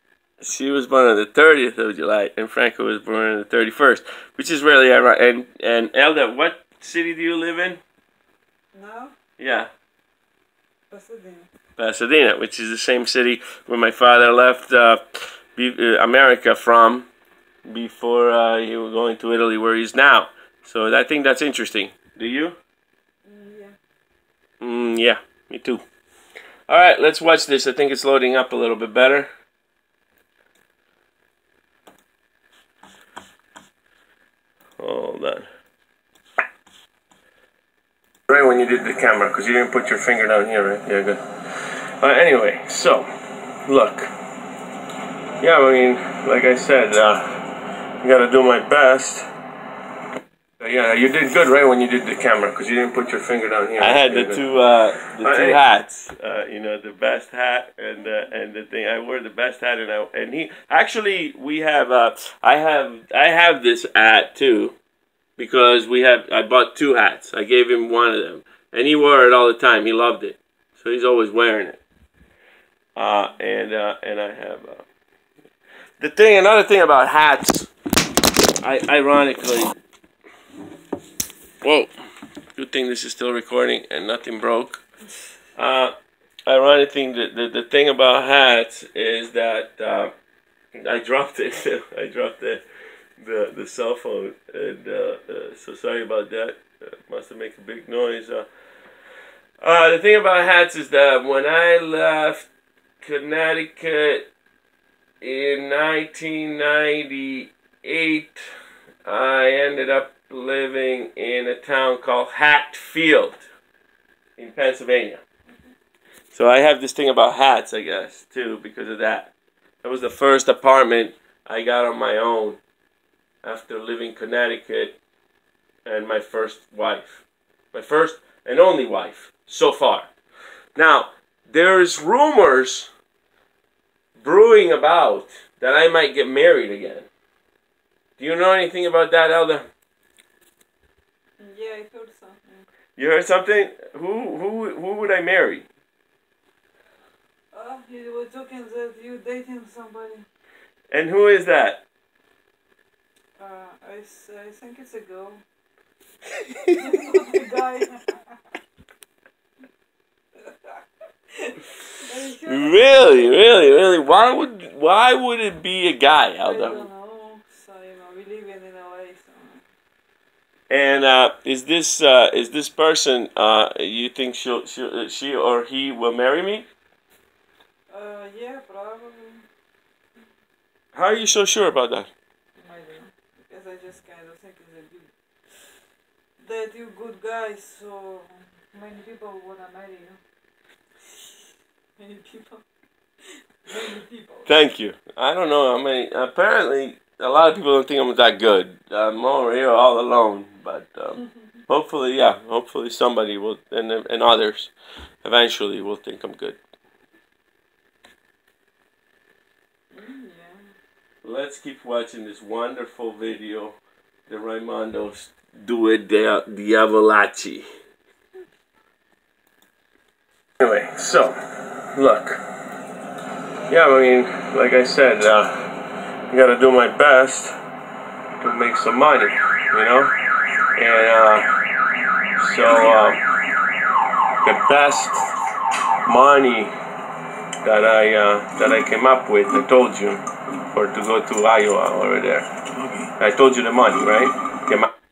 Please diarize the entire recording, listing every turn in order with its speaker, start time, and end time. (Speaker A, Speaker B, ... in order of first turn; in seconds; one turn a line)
Speaker A: 0.4-7.8
Speaker B: 8.7-9.2
Speaker A: 9.4-9.7
Speaker B: 10.9-11.5
Speaker A: 11.8-17.1
Speaker A: 17.6-22.6
Speaker B: 23.2-23.8
Speaker A: 24.6-25.8
Speaker A: 26.7-29.3
Speaker A: 34.8-35.5
Speaker C: 38.3-41.2
Speaker C: 42.0-43.0
Speaker C: 43.6-44.1
Speaker C: 45.4-47.2
Speaker C: 48.0-49.2
Speaker C: 50.6-54.5
Speaker A: 53.8-64.8
Speaker C: 55.0-55.6
Speaker A: 65.4-71.8
Speaker A: 73.0-74.8
Speaker A: 76.0-77.7
Speaker A: 78.6-79.7
Speaker A: 81.6-81.9
Speaker A: 82.5-84.8
Speaker A: 85.5-85.9
Speaker A: 86.5-90.1
Speaker A: 90.8-92.6
Speaker A: 93.2-98.5
Speaker A: 99.6-102.5
Speaker A: 103.0-104.3
Speaker A: 105.2-108.4
Speaker A: 109.0-113.4
Speaker A: 114.4-115.2
Speaker A: 116.3-122.6
Speaker A: 123.4-125.0
Speaker A: 125.8-130.1
Speaker A: 130.7-132.9
Speaker A: 134.2-137.1
Speaker A: 138.2-139.7
Speaker B: 141.4-142.7
Speaker A: 143.0-145.7
Speaker B: 147.5-150.2
Speaker A: 150.9-151.8
Speaker B: 153.4-155.4
Speaker B: 156.7-158.2
Speaker B: 161.4-163.8
Speaker A: 162.4-166.9
Speaker B: 166.4-169.6
Speaker A: 170.7-176.7
Speaker B: 177.9-179.4
Speaker A: 180.9-182.1
Speaker B: 182.6-185.7
Speaker B: 186.4-190.2
Speaker B: 192.0-192.6
Speaker B: 193.7-194.5
Speaker A: 194.4-204.7
Speaker A: 205.2-206.6
Speaker B: 209.9-210.7
Speaker A: 211.2-217.6
Speaker A: 220.6-221.3
Speaker A: 221.9-222.4
Speaker A: 223.7-227.5
Speaker A: 228.4-230.1
Speaker A: 230.8-231.5
Speaker A: 232.4-233.2
Speaker A: 234.4-235.3
Speaker A: 236.0-236.7
Speaker A: 237.6-242.5
Speaker A: 243.2-244.9